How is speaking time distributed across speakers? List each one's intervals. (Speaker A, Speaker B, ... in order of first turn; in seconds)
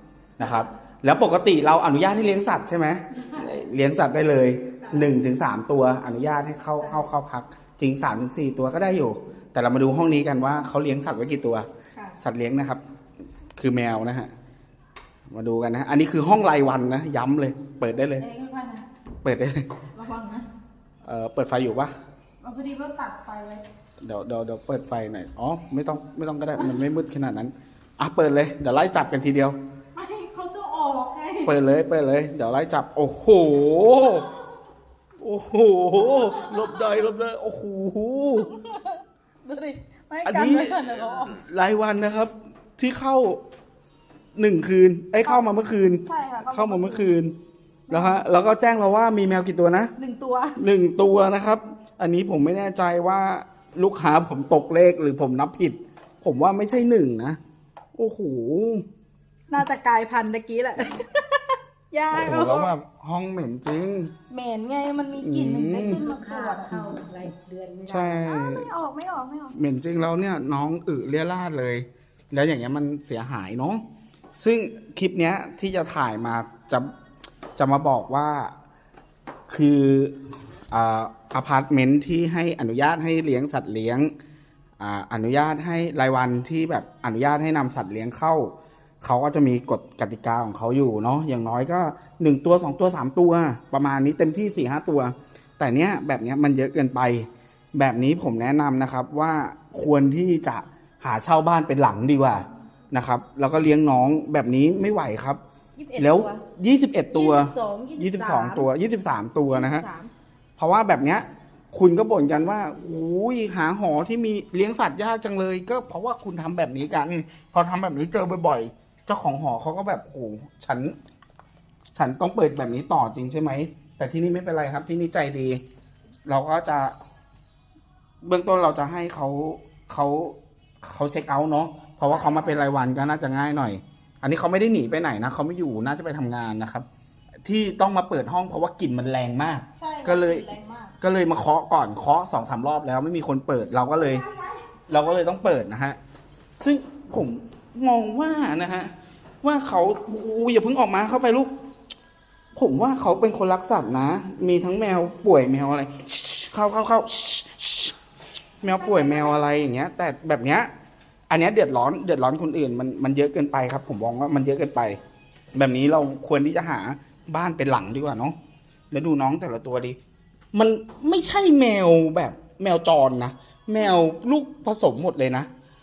Speaker A: 0.4-12.8, 13.6-14.3, 15.3-18.2, 19.2-19.8, 21.0-21.9, 24.0-29.6, 31.4-34.3, 35.2-38.5, 40.2-43.4, 44.4-47.4, 47.9-49.9, 50.6-57.4, 58.0-58.8, 62.1-64.1, 65.1-66.0, 67.8-68.7, 69.5-76.9, 77.6-78.5, 79.5-84.1, 84.8-105.4, 106.0-109.8, 110.6-120.9, 121.9-125.6, 126.2-126.9, 128.2-136.8, 137.4-140.5, 141.0-144.2, 144.9-146.0, 146.6-151.5, 152.5-157.9, 158.6-160.7, 161.3-165.0, 165.5-168.4, 168.9-170.0, 170.5-175.5
Speaker B: 4.8-5.1, 18.2-18.9, 19.9-20.5, 22.4-23.6, 29.9-31.5, 34.0-34.3, 36.1-37.0, 38.4-41.4, 46.0-47.1, 47.9-48.2, 50.0-50.6, 59.5-62.7, 64.3-67.0, 68.1-69.5, 105.8-106.4, 107.1-108.7, 109.5-110.1, 132.0-132.6, 139.7-140.9, 143.9-144.6, 158.8-159.4
Speaker C: 65.8-68.2